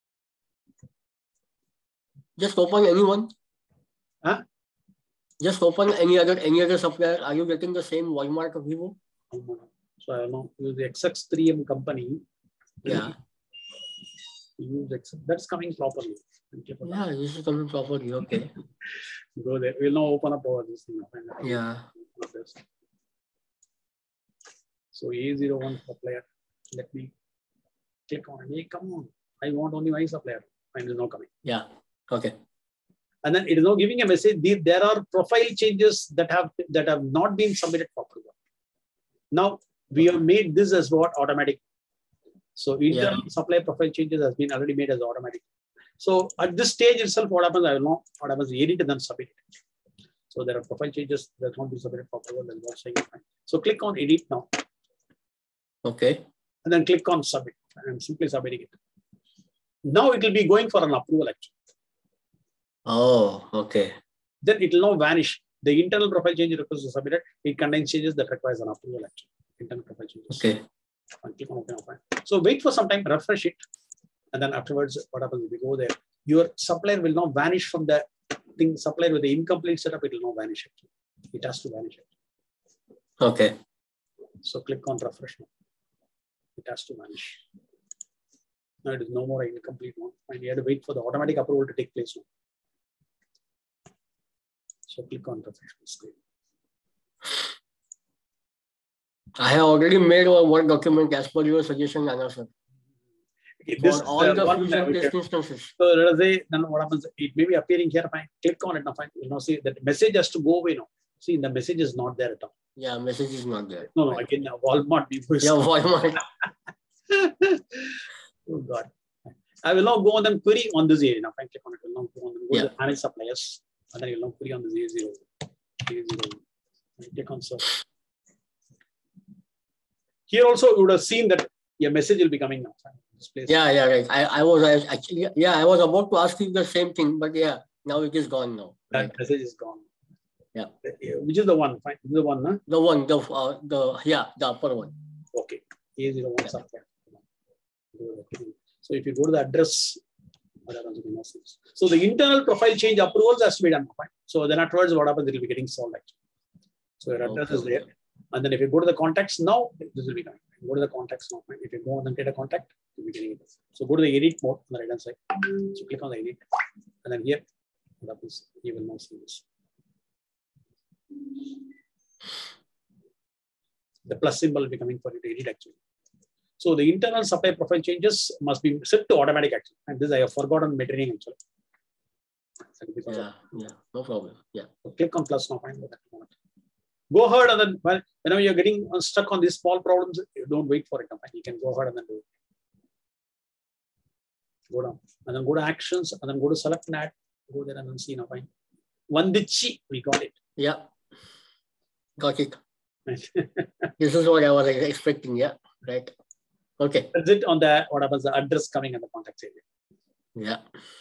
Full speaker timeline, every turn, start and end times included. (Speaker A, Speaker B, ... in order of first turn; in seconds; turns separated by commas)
Speaker A: 2.4-3.3, Speaker A: 5.4-8.9, Speaker B: 9.3-12.2, Speaker A: 12.8-13.1, Speaker B: 14.6-17.1, Speaker A: 16.8-18.5, Speaker B: 19.4-22.6, Speaker A: 21.4-21.9, Speaker B: 24.9-27.1, Speaker B: 28.1-31.3, Speaker A: 31.4-32.3, Speaker B: 33.2-38.3, Speaker B: 39.3-41.6, Speaker B: 42.5-45.4, Speaker A: 42.9-43.2, Speaker B: 46.0-49.5, Speaker B: 50.3-54.6, Speaker A: 55.8-56.2, Speaker B: 56.6-58.8, Speaker B: 59.9-61.5, Speaker A: 62.9-63.9, Speaker B: 64.4-70.5, Speaker A: 70.3-70.6, Speaker B: 71.2-73.6, Speaker B: 74.3-82.1, Speaker A: 83.2-83.5, Speaker B: 84.4-85.5, Speaker B: 86.6-87.4, Speaker B: 88.8-92.2, Speaker B: 94.9-96.1, Speaker A: 99.4-102.5, Speaker B: 103.6-105.1, Speaker A: 103.8-105.7, Speaker B: 105.8-112.5, Speaker A: 112.8-114.2, Speaker B: 113.9-115.6, Speaker A: 115.4-116.2, Speaker B: 117.1-118.9, Speaker B: 119.6-125.3, Speaker B: 125.8-126.4, Speaker B: 127.0-127.8, Speaker B: 130.3-133.6, Speaker A: 133.5-139.1, Speaker B: 138.9-139.8, Speaker B: 140.8-142.6, Speaker A: 142.7-144.9, Speaker B: 145.3-147.2, Speaker B: 147.9-150.0, Speaker B: 150.7-156.1, Speaker B: 157.0-166.4, Speaker A: 157.2-157.8, Speaker B: 167.0-167.4, Speaker B: 168.0-169.4, Speaker B: 174.1-175.7, Speaker B: 176.6-181.4, Speaker B: 182.8-183.3, Speaker A: 183.1-184.7, Speaker B: 184.8-186.3, Speaker B: 187.1-192.2, Speaker B: 194.7-198.5, Speaker B: 199.1-200.3, Speaker A: 200.6-200.9, Speaker A: 202.2-202.6, Speaker B: 203.1-203.9, Speaker A: 204.0-206.1, Speaker A: 206.8-207.1, Speaker B: 207.1-209.6